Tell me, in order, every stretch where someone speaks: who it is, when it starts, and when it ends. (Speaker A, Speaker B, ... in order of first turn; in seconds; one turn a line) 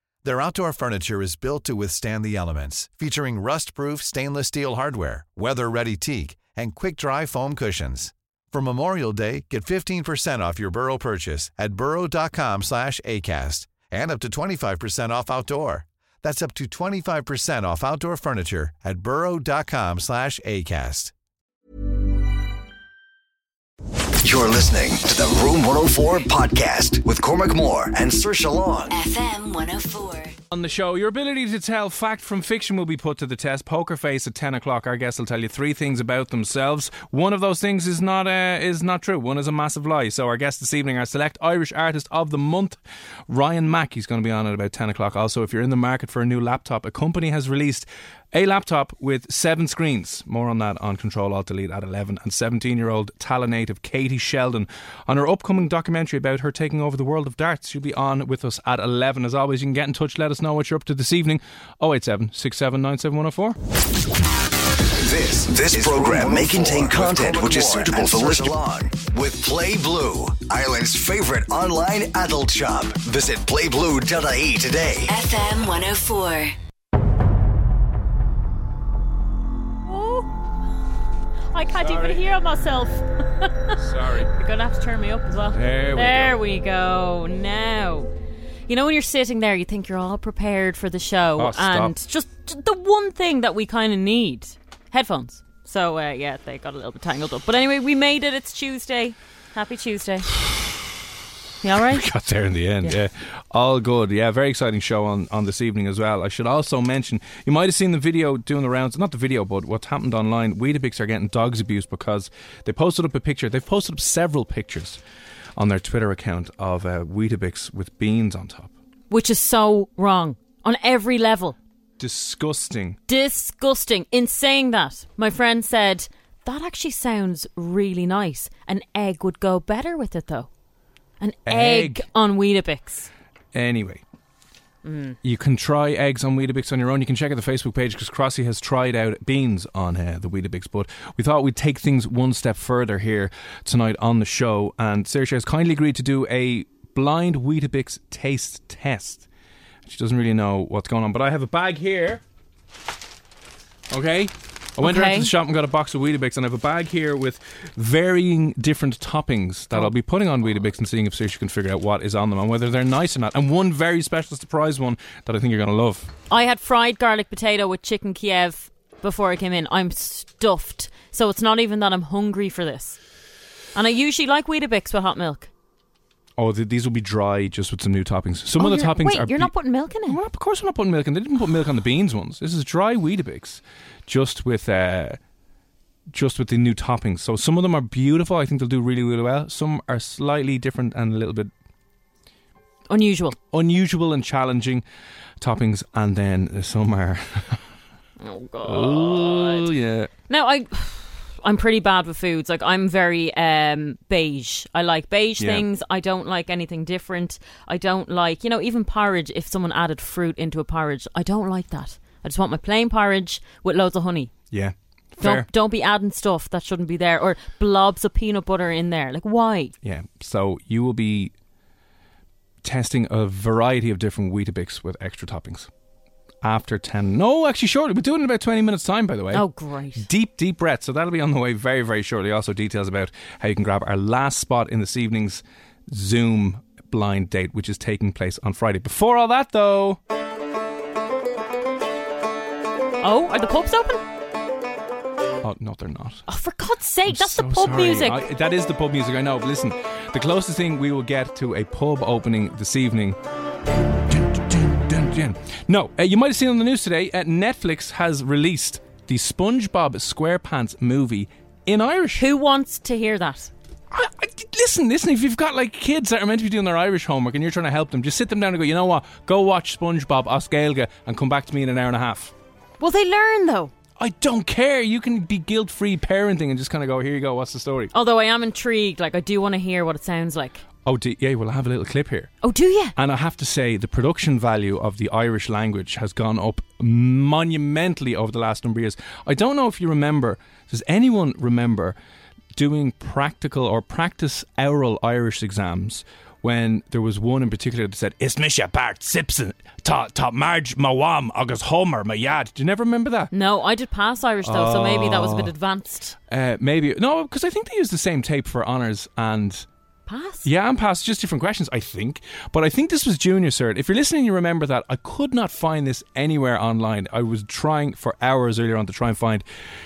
Speaker A: 0.2-21.1
Speaker B: 24.2-28.9
Speaker C: 28.9-30.4
Speaker D: 30.5-63.6
Speaker B: 65.0-75.1
Speaker A: 65.7-68.5
Speaker C: 75.1-76.5
Speaker E: 79.8-80.3
Speaker E: 81.5-83.8
Speaker D: 81.8-82.2
Speaker D: 83.8-84.3
Speaker E: 84.3-88.1
Speaker D: 85.5-86.4
Speaker E: 88.7-100.3
Speaker D: 91.4-92.0
Speaker E: 101.6-102.1
Speaker D: 101.8-115.0
Speaker D: 115.6-118.7
Speaker E: 119.1-121.6
Speaker D: 122.0-123.0
Speaker E: 123.1-130.5
Speaker E: 131.2-133.1
Speaker D: 131.5-132.0
Speaker D: 133.5-134.0
Speaker E: 134.8-135.2
Speaker D: 135.2-149.3
Speaker D: 149.9-152.2
Speaker D: 153.9-166.1
Speaker E: 154.8-155.3
Speaker E: 166.3-173.0
Speaker E: 173.8-175.5
Speaker D: 176.4-179.5
Speaker E: 178.6-180.2
Speaker D: 180.1-185.2
Speaker D: 186.1-191.5
Speaker E: 192.9-193.4
Speaker D: 193.5-194.8
Speaker D: 195.4-197.6
Speaker E: 198.2-199.7
Speaker D: 198.6-200.1
Speaker E: 200.3-214.3
Speaker D: 205.4-205.7
Speaker D: 214.5-215.5
Speaker E: 215.2-219.7
Speaker D: 219.8-221.3
Speaker D: 222.6-225.7
Speaker D: 226.4-229.4
Speaker E: 229.3-230.1
Speaker D: 230.0-240.0
Speaker E: 243.0-244.0
Speaker D: 245.4-246.2
Speaker E: 246.3-248.2
Speaker D: 247.1-253.2
Speaker D: 254.1-262.3
Speaker E: 262.2-263.5
Speaker D: 263.9-272.3
Speaker E: 272.8-273.7
Speaker D: 274.0-277.9
Speaker E: 277.9-280.6
Speaker D: 280.8-282.3
Speaker E: 282.4-282.9
Speaker D: 283.0-292.0
Speaker D: 292.6-303.3
Speaker E: 303.3-306.2
Speaker D: 304.4-305.5
Speaker D: 306.3-309.7
Speaker E: 310.1-310.5
Speaker D: 310.4-319.4